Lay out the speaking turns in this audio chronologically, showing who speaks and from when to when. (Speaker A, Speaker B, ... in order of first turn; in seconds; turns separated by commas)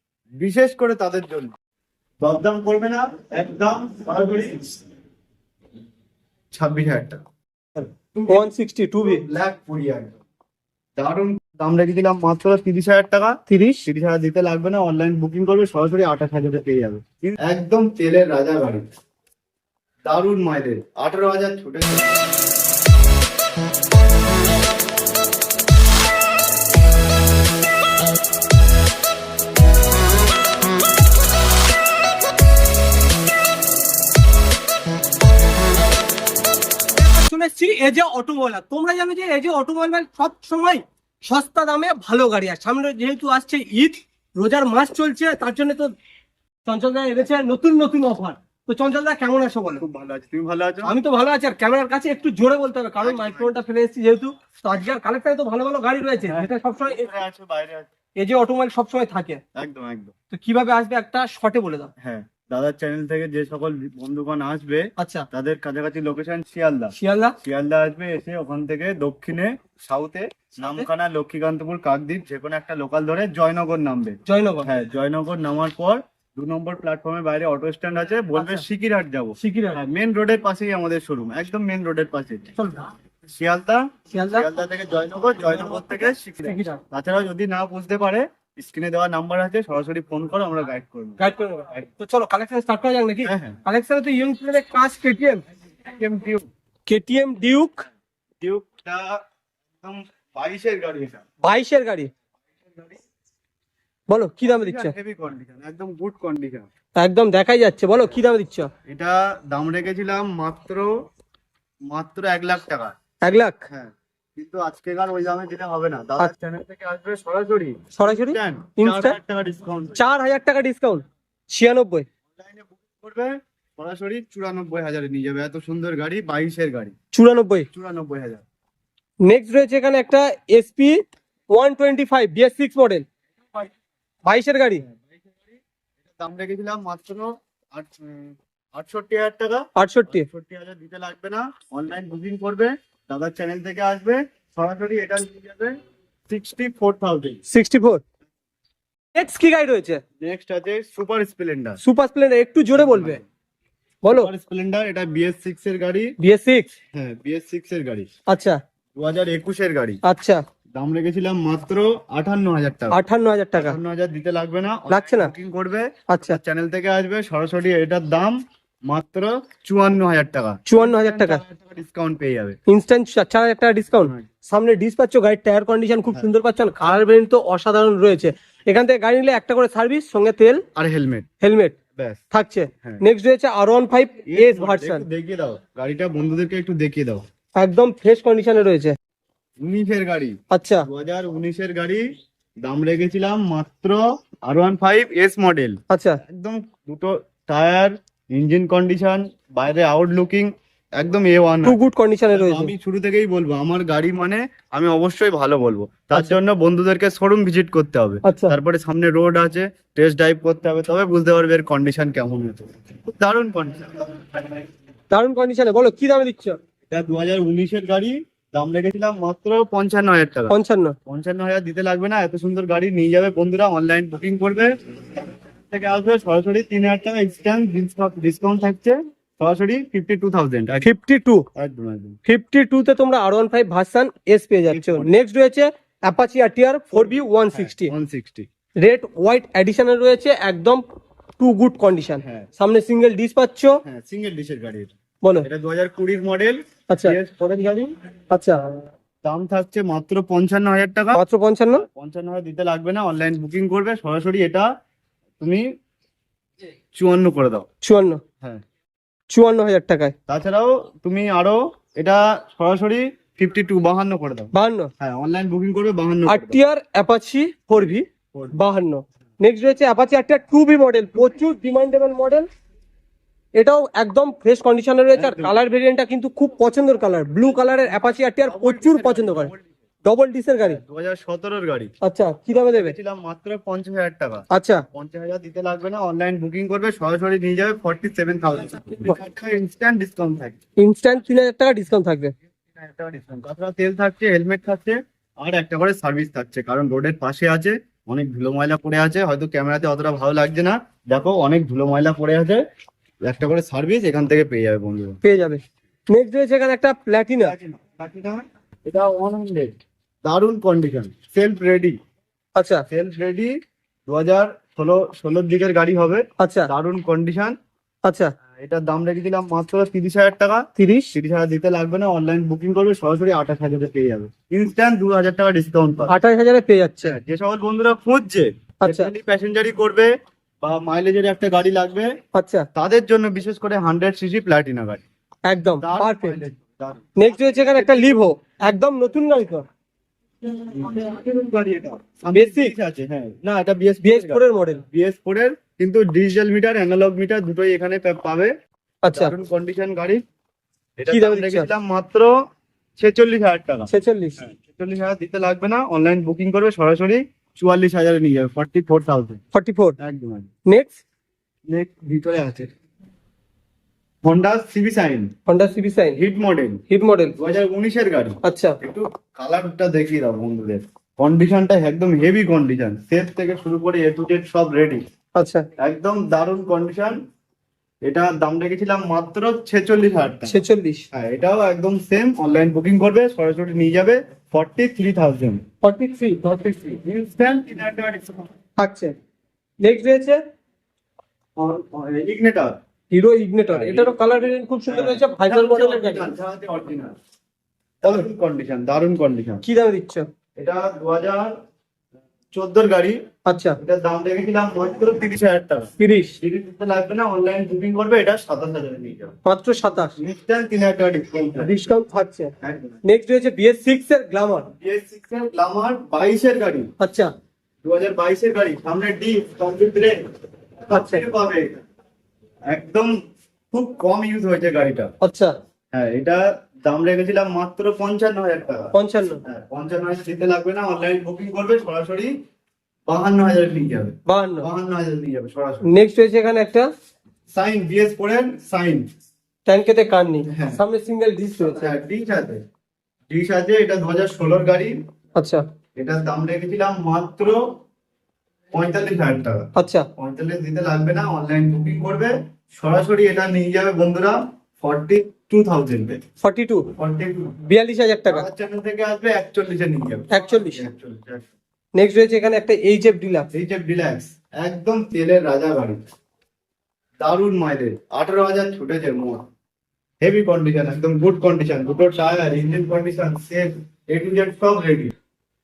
Speaker A: 0.4-1.5, Speaker A: 2.2-4.6, Speaker A: 6.5-7.2, Speaker B: 7.8-9.2, Speaker A: 8.1-10.2, Speaker A: 11.0-18.8, Speaker B: 13.5-13.8, Speaker A: 20.0-22.2, Speaker B: 36.9-45.9, Speaker B: 46.6-49.8, Speaker A: 49.8-50.9, Speaker B: 50.8-57.1, Speaker A: 53.0-53.5, Speaker A: 56.3-57.9, Speaker B: 58.1-59.4, Speaker A: 59.5-60.1, Speaker B: 60.3-61.9, Speaker A: 62.0-82.6, Speaker B: 65.0-65.3, Speaker B: 67.0-67.3, Speaker B: 74.3-74.7, Speaker B: 78.4-78.6, Speaker B: 79.4-79.8, Speaker B: 82.6-82.9, Speaker A: 83.3-91.2, Speaker B: 84.1-84.5, Speaker B: 86.4-86.8, Speaker B: 91.2-95.4, Speaker A: 93.2-93.6, Speaker A: 95.8-96.5, Speaker B: 96.9-97.8, Speaker A: 98.4-99.2, Speaker A: 99.8-101.2, Speaker B: 101.4-102.1, Speaker A: 102.6-103.0, Speaker B: 104.1-104.9, Speaker A: 104.4-106.7, Speaker B: 107.0-108.7, Speaker A: 108.8-111.1, Speaker A: 111.9-112.9, Speaker B: 113.2-113.6, Speaker A: 113.7-120.0, Speaker B: 117.9-119.2, Speaker B: 119.9-122.0, Speaker A: 122.3-126.9, Speaker B: 127.1-127.7, Speaker A: 127.7-128.4, Speaker B: 129.2-133.1, Speaker B: 134.2-134.8, Speaker A: 134.8-135.6, Speaker A: 136.1-145.8, Speaker B: 139.8-140.3, Speaker A: 146.3-147.4, Speaker B: 147.5-148.0, Speaker B: 149.1-150.0, Speaker A: 150.2-151.8, Speaker B: 151.8-153.2, Speaker A: 152.7-153.2, Speaker B: 154.0-154.3, Speaker A: 154.1-156.1, Speaker B: 156.2-156.7, Speaker A: 156.9-158.1, Speaker B: 158.3-158.6, Speaker A: 158.9-160.0, Speaker B: 160.0-160.4, Speaker A: 160.7-163.0, Speaker B: 162.9-163.8, Speaker A: 163.6-172.6, Speaker B: 164.9-165.3, Speaker B: 166.1-166.4, Speaker B: 170.7-171.4, Speaker B: 172.7-180.6, Speaker A: 180.7-181.3, Speaker B: 181.4-181.8, Speaker A: 181.9-182.2, Speaker B: 182.3-185.1, Speaker A: 184.3-187.2, Speaker B: 187.6-189.0, Speaker A: 189.6-192.1, Speaker B: 190.5-190.9, Speaker A: 192.6-201.8, Speaker B: 195.9-196.2, Speaker B: 201.6-202.7, Speaker A: 202.3-214.7, Speaker B: 208.2-208.5, Speaker B: 215.1-216.6, Speaker A: 216.9-230.9, Speaker B: 220.5-220.9, Speaker B: 230.8-231.5, Speaker A: 231.5-232.2, Speaker B: 232.3-237.9, Speaker A: 234.7-235.1, Speaker A: 236.9-238.5, Speaker B: 238.8-240.8, Speaker B: 241.4-243.8, Speaker A: 242.2-242.5, Speaker A: 243.8-247.9, Speaker B: 246.9-247.2, Speaker B: 248.3-248.7, Speaker A: 249.2-251.2, Speaker B: 251.1-251.8, Speaker A: 251.8-254.7, Speaker A: 255.4-255.7, Speaker A: 256.9-257.7, Speaker B: 257.8-258.2, Speaker B: 259.3-260.1, Speaker A: 260.3-266.6, Speaker B: 264.5-264.9, Speaker B: 266.2-272.5, Speaker A: 267.8-268.6, Speaker B: 273.5-279.5, Speaker A: 275.1-275.5, Speaker A: 278.4-279.7, Speaker B: 280.0-280.8, Speaker A: 280.6-281.9, Speaker B: 282.0-282.9, Speaker A: 282.5-290.6, Speaker B: 284.5-284.8, Speaker B: 290.8-292.3, Speaker A: 292.7-302.6, Speaker A: 303.2-305.2, Speaker B: 305.2-307.5, Speaker A: 307.4-309.7, Speaker A: 310.2-312.0, Speaker B: 312.6-312.8, Speaker A: 312.9-317.6, Speaker B: 316.4-316.7, Speaker B: 318.0-318.3, Speaker A: 318.6-326.1, Speaker B: 320.8-321.1, Speaker B: 326.1-327.2, Speaker A: 327.0-332.1, Speaker B: 328.8-329.1, Speaker B: 332.3-332.7, Speaker A: 332.8-335.0, Speaker B: 335.4-336.4, Speaker A: 335.8-338.2, Speaker B: 337.1-339.6, Speaker A: 340.4-348.5, Speaker B: 342.3-342.7, Speaker B: 344.0-344.8, Speaker B: 349.0-349.3, Speaker A: 349.1-350.2, Speaker A: 351.0-352.3, Speaker B: 351.1-351.7, Speaker A: 353.0-359.4, Speaker B: 353.9-354.4, Speaker B: 359.5-359.9, Speaker A: 360.0-360.5, Speaker B: 360.7-361.0, Speaker A: 361.7-362.7, Speaker A: 364.2-365.3, Speaker B: 365.5-366.2, Speaker A: 366.1-366.8, Speaker B: 366.9-367.4, Speaker A: 367.4-375.0, Speaker B: 368.4-368.8, Speaker B: 375.4-375.7, Speaker A: 375.8-377.2, Speaker A: 378.0-380.6, Speaker B: 380.5-381.0, Speaker A: 381.1-385.6, Speaker B: 385.8-386.4, Speaker A: 386.4-388.5, Speaker B: 388.8-389.1, Speaker B: 389.8-390.4, Speaker A: 391.6-392.8, Speaker B: 393.1-396.3, Speaker A: 393.7-394.2, Speaker A: 394.9-397.1, Speaker A: 398.0-399.6, Speaker B: 399.6-400.3, Speaker A: 400.6-401.5, Speaker A: 402.5-403.2, Speaker B: 403.4-403.8, Speaker A: 403.8-409.4, Speaker B: 406.0-406.4, Speaker B: 409.4-410.1, Speaker A: 410.1-411.7, Speaker B: 411.6-412.5, Speaker A: 412.6-413.0, Speaker B: 413.0-414.7, Speaker A: 414.8-416.9, Speaker B: 417.0-417.3, Speaker A: 417.8-420.2, Speaker A: 420.8-421.8, Speaker B: 420.9-421.2, Speaker A: 422.7-423.1, Speaker A: 423.7-425.1, Speaker B: 425.2-425.5, Speaker A: 425.9-432.3, Speaker B: 428.9-429.4, Speaker A: 433.1-435.9, Speaker B: 434.3-434.7, Speaker B: 435.8-436.9, Speaker A: 437.5-439.1, Speaker B: 439.6-441.9, Speaker A: 440.5-440.8, Speaker A: 441.6-442.6, Speaker A: 443.3-445.0, Speaker B: 445.4-445.6, Speaker A: 446.0-447.8, Speaker A: 448.7-456.2, Speaker B: 449.8-450.1, Speaker B: 456.4-456.9, Speaker A: 456.9-457.6, Speaker B: 457.6-458.5, Speaker A: 458.3-461.5, Speaker B: 460.3-460.8, Speaker B: 461.9-463.5, Speaker A: 463.5-466.0, Speaker A: 467.2-469.4, Speaker A: 470.2-475.1